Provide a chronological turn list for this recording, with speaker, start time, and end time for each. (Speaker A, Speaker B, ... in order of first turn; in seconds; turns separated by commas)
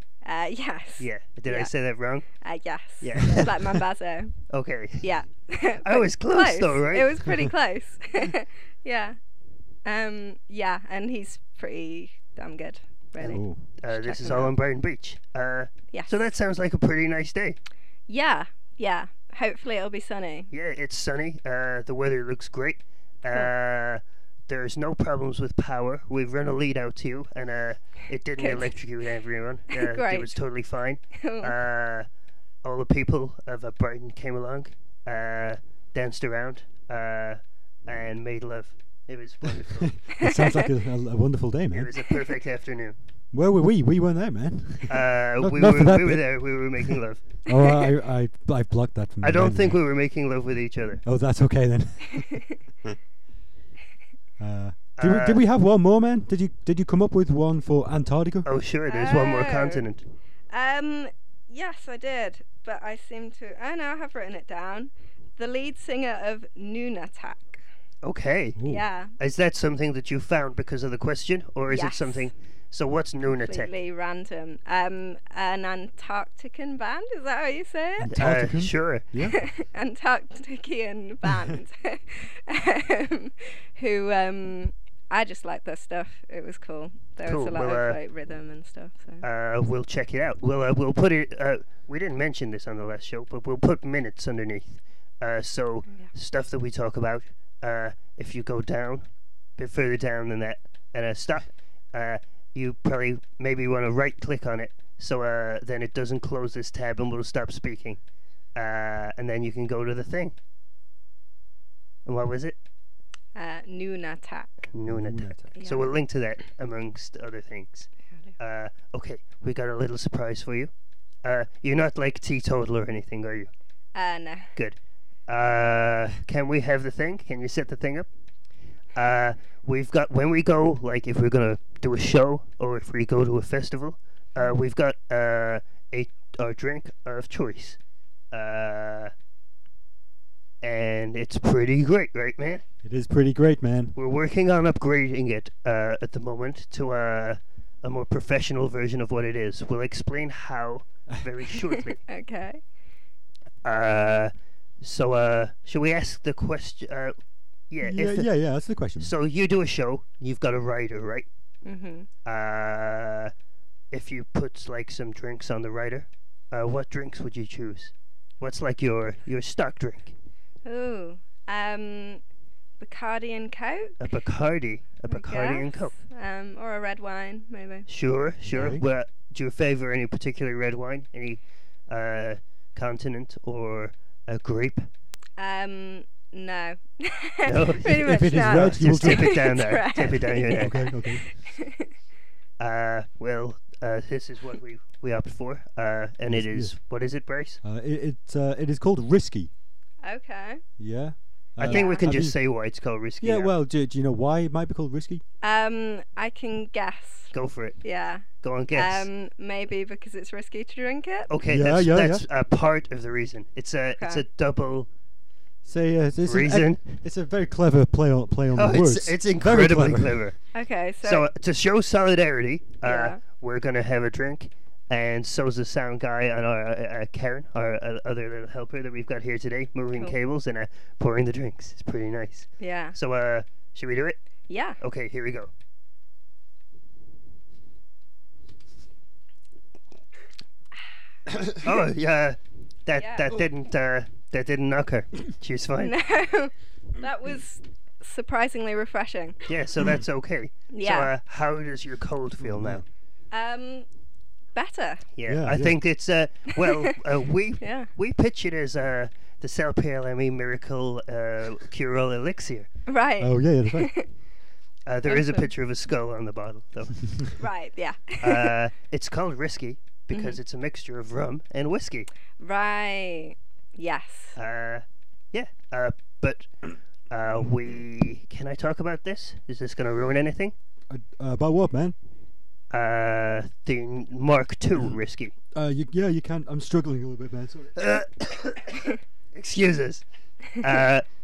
Speaker A: 0.2-1.7, Speaker B: 1.0-2.3, Speaker A: 2.4-4.4, Speaker B: 3.0-3.8, Speaker B: 4.5-5.1, Speaker A: 5.0-9.2, Speaker B: 5.8-7.2, Speaker A: 9.8-14.5, Speaker B: 13.2-17.6, Speaker C: 13.3-13.6, Speaker A: 18.1-20.5, Speaker B: 20.5-32.0, Speaker A: 28.4-28.7, Speaker A: 29.7-30.4, Speaker A: 31.1-31.5, Speaker B: 32.6-40.0, Speaker C: 39.7-42.0, Speaker A: 40.1-40.7, Speaker B: 41.7-43.0, Speaker C: 43.3-46.2, Speaker B: 44.9-47.2, Speaker C: 46.8-49.8, Speaker B: 49.2-51.0, Speaker C: 51.0-52.9, Speaker A: 52.1-52.6, Speaker C: 54.4-58.5, Speaker B: 55.0-55.4, Speaker B: 58.5-60.0, Speaker A: 58.9-59.8, Speaker A: 60.5-67.6, Speaker B: 68.0-68.6, Speaker C: 68.5-68.8, Speaker A: 68.6-69.1, Speaker B: 69.2-73.7, Speaker A: 71.7-72.2, Speaker A: 73.2-78.1, Speaker C: 78.0-79.4, Speaker B: 78.1-79.0, Speaker A: 79.3-89.2, Speaker B: 87.3-88.0, Speaker B: 89.2-99.0, Speaker B: 99.6-108.0, Speaker B: 108.5-110.3, Speaker B: 112.0-112.6, Speaker A: 113.3-114.5, Speaker B: 114.7-120.7, Speaker C: 114.9-115.5, Speaker A: 115.5-115.9, Speaker B: 121.2-123.5, Speaker A: 124.0-124.5, Speaker B: 124.5-128.1, Speaker B: 128.9-137.8, Speaker B: 138.3-139.1, Speaker B: 140.6-142.6, Speaker C: 142.8-143.9, Speaker B: 144.0-152.0, Speaker A: 151.8-152.6, Speaker B: 153.6-157.1, Speaker B: 157.7-158.3, Speaker C: 157.8-159.1, Speaker B: 159.0-161.3, Speaker A: 161.6-162.1, Speaker B: 162.2-163.3, Speaker B: 163.9-170.1, Speaker A: 170.6-172.2, Speaker A: 172.8-174.1, Speaker B: 174.0-175.9, Speaker A: 175.1-177.9, Speaker B: 177.9-184.9, Speaker C: 178.5-178.8, Speaker A: 185.4-191.9, Speaker B: 187.5-190.9, Speaker C: 187.8-189.5, Speaker C: 190.5-191.2, Speaker B: 192.6-197.6, Speaker C: 196.3-196.7, Speaker C: 197.6-199.5, Speaker A: 200.0-200.6, Speaker C: 200.8-202.3, Speaker B: 201.6-203.5, Speaker A: 201.7-202.1, Speaker C: 203.2-205.2, Speaker A: 205.4-211.3, Speaker B: 207.3-207.8, Speaker B: 208.4-209.1, Speaker B: 211.3-214.9, Speaker C: 211.4-212.2, Speaker C: 215.6-220.2, Speaker B: 216.2-217.0, Speaker B: 218.5-220.4, Speaker A: 220.5-221.3, Speaker B: 221.0-234.2, Speaker A: 222.8-223.2, Speaker A: 232.6-232.9, Speaker A: 234.5-234.8, Speaker B: 234.8-235.5, Speaker B: 241.5-246.0, Speaker A: 243.0-243.3, Speaker A: 245.8-249.4, Speaker B: 249.5-252.8, Speaker A: 250.7-251.1, Speaker C: 252.4-252.8, Speaker A: 253.3-253.9, Speaker A: 254.5-255.1, Speaker B: 255.2-262.7, Speaker C: 255.3-255.8, Speaker A: 256.6-257.0, Speaker A: 257.6-257.9, Speaker A: 262.9-264.1, Speaker C: 263.2-263.9, Speaker B: 264.9-267.4, Speaker A: 265.1-265.5, Speaker A: 267.4-268.5, Speaker B: 268.2-272.1, Speaker A: 270.1-270.4, Speaker A: 272.4-274.4, Speaker B: 274.4-276.5, Speaker B: 277.1-280.5, Speaker C: 280.9-282.0, Speaker B: 282.7-285.3, Speaker C: 285.5-287.9, Speaker B: 287.8-291.0